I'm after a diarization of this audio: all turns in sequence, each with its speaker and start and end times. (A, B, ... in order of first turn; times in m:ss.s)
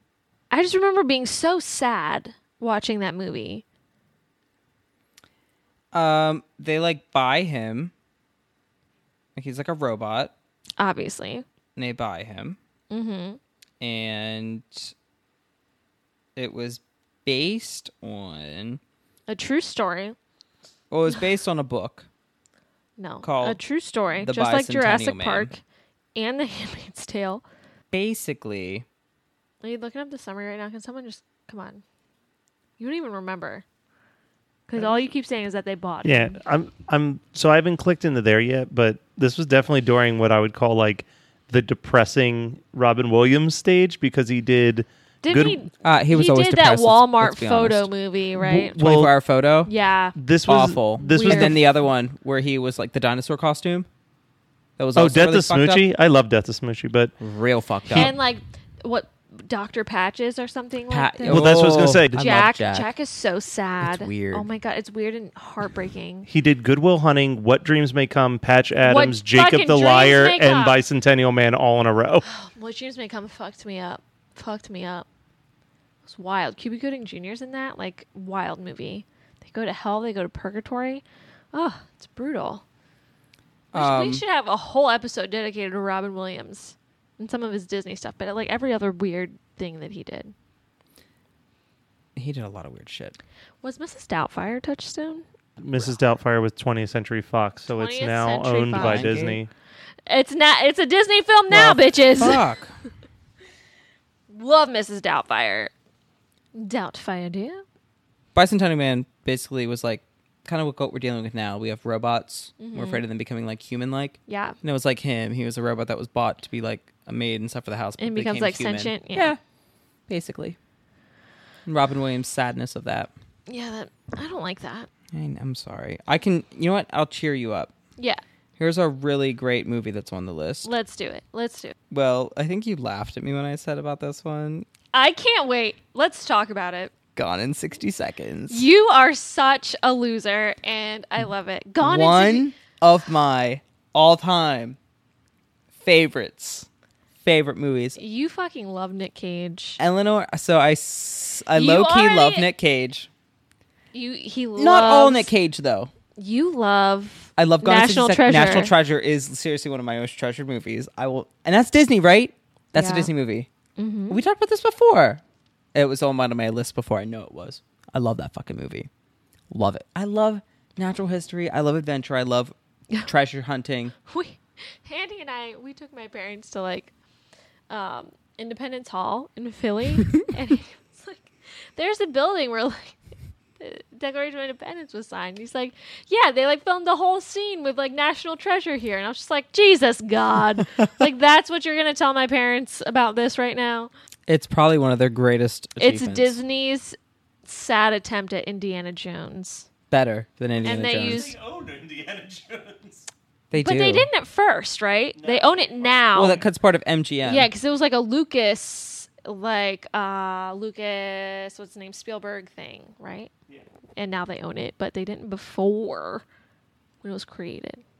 0:00.5-0:03.6 A
0:05.9-0:07.9 B
0:09.4-0:10.3 B
0:10.8-0:11.4 A
0:11.8-0:12.6 B
0:12.9-0:13.4 A
0:13.8-0:14.9 B
0:16.4-0:18.8 B
0:19.3-0:20.2 A
0:20.9-0:22.1 B
0:23.0-0:25.6 A
0:23.2-0:23.6 B
0:24.2-0:25.5 B
0:26.2-0:27.4 A
0:27.9-0:28.8 B
0:29.6-0:31.8 A
0:32.8-0:33.6 A
0:34.7-0:36.4 A
0:36.0-0:45.6 C
0:45.2-0:48.8 A
0:45.8-0:49.7 B
0:48.8-0:49.1 C
0:49.6-0:50.2 A
0:50.2-0:51.6 C
0:50.5-0:53.9 B
0:51.0-0:51.6 A
0:54.8-0:55.8 B
0:55.0-0:57.1 C
0:57.2-0:58.1 B
0:57.9-1:06.3 A
1:00.9-1:02.9 B
1:01.3-1:02.2 C
1:03.8-1:04.5 B
1:06.3-1:12.2 C
1:08.8-1:10.8 A
1:12.2-1:15.1 A
1:16.0-1:22.6 A
1:23.7-1:24.2 B
1:23.7-1:30.3 A
1:32.2-1:33.2 B
1:33.6-1:35.2 A
1:35.6-1:39.5 C
1:37.7-1:39.1 A
1:38.7-1:39.4 B
1:40.1-1:42.4 A
1:41.5-1:42.8 B
1:44.3-1:45.7 A
1:46.5-1:47.6 A
1:48.3-1:59.4 B
1:52.6-1:53.0 A
1:54.3-1:54.6 A
1:58.0-1:59.3 A
2:00.1-2:00.6 B
2:01.6-2:03.1 B
2:03.5-2:04.9 A
2:05.1-2:07.7 B
2:08.6-2:10.7 B
2:10.6-2:11.7 A
2:11.9-2:14.7 B
2:14.9-2:16.9 A
2:17.2-2:18.6 B
2:18.5-2:22.5 A
2:21.8-2:24.8 B
2:25.8-2:26.7 B
2:27.2-2:28.0 B
2:28.0-2:29.8 A
2:29.8-2:33.1 B
2:31.5-2:32.5 A
2:33.9-2:35.3 A
2:34.6-2:35.9 B
2:36.2-2:38.7 A
2:37.4-2:43.5 B
2:42.7-2:43.1 A
2:43.8-2:44.2 A
2:44.1-2:45.2 B
2:45.7-2:48.9 B
2:49.5-2:52.5 B
2:53.0-2:53.9 B
2:54.0-2:56.9 A
2:57.7-3:03.0 A
3:03.6-3:13.9 A
3:14.3-3:16.4 B
3:15.8-3:19.7 A
3:19.9-3:21.3 B
3:20.6-3:21.3 A
3:21.0-3:23.1 C
3:23.5-3:24.1 B
3:23.6-3:26.4 A
3:25.2-3:26.0 C
3:26.1-3:27.5 B
3:27.2-3:33.3 A
3:34.0-3:36.2 A
3:37.0-3:37.8 A